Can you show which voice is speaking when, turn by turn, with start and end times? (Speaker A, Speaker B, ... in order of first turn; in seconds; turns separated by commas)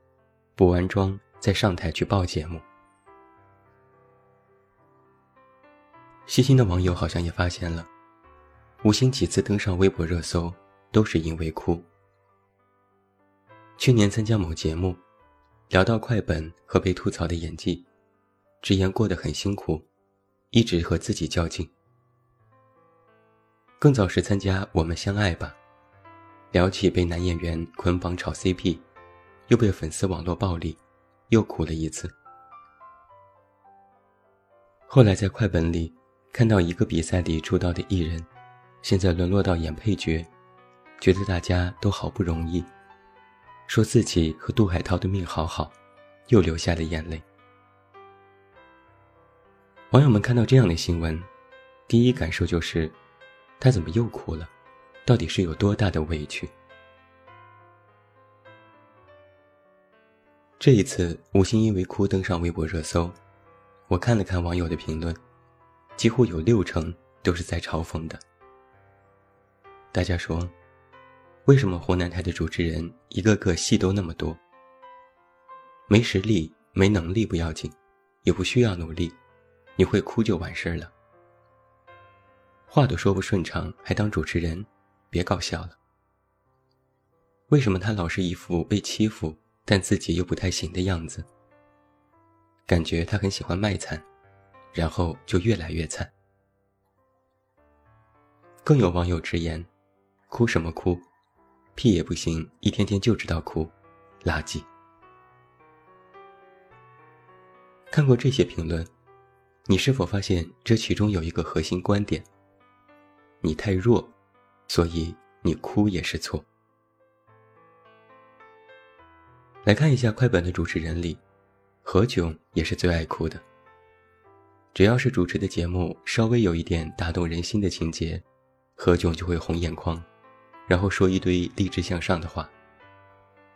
Speaker A: 0.6-2.6, Speaker A: 6.3-7.9, Speaker A: 8.8-11.9, Speaker A: 13.8-15.0, Speaker A: 15.7-17.9, Speaker A: 18.6-19.9, Speaker A: 20.5-21.7, Speaker A: 23.8-25.6, Speaker A: 26.5-28.9, Speaker A: 29.5-32.1, Speaker A: 34.9-38.3, Speaker A: 38.8-40.3, Speaker A: 41.0-42.7, Speaker A: 43.7-45.7, Speaker A: 46.3-47.2, Speaker A: 49.9-51.3, Speaker A: 51.9-53.0, Speaker A: 53.6-54.5, Speaker A: 55.0-56.5, Speaker A: 60.6-63.2, Speaker A: 63.9-65.2, Speaker A: 66.0-68.2, Speaker A: 69.9-70.5, Speaker A: 71.5-74.4, Speaker A: 75.9-79.2, Speaker A: 79.8-80.9, Speaker A: 82.7-85.8, Speaker A: 87.5-91.3, Speaker A: 92.7-94.0, Speaker A: 94.7-96.1, Speaker A: 98.6-99.7, Speaker A: 100.3-101.1, Speaker A: 101.7-104.7, Speaker A: 107.9-108.9, Speaker A: 109.7-112.3, Speaker A: 113.4-114.2, Speaker A: 114.7-116.5, Speaker A: 119.6-121.2, Speaker A: 121.8-123.4, Speaker A: 124.7-128.2, Speaker A: 128.8-130.1, Speaker A: 130.7-132.5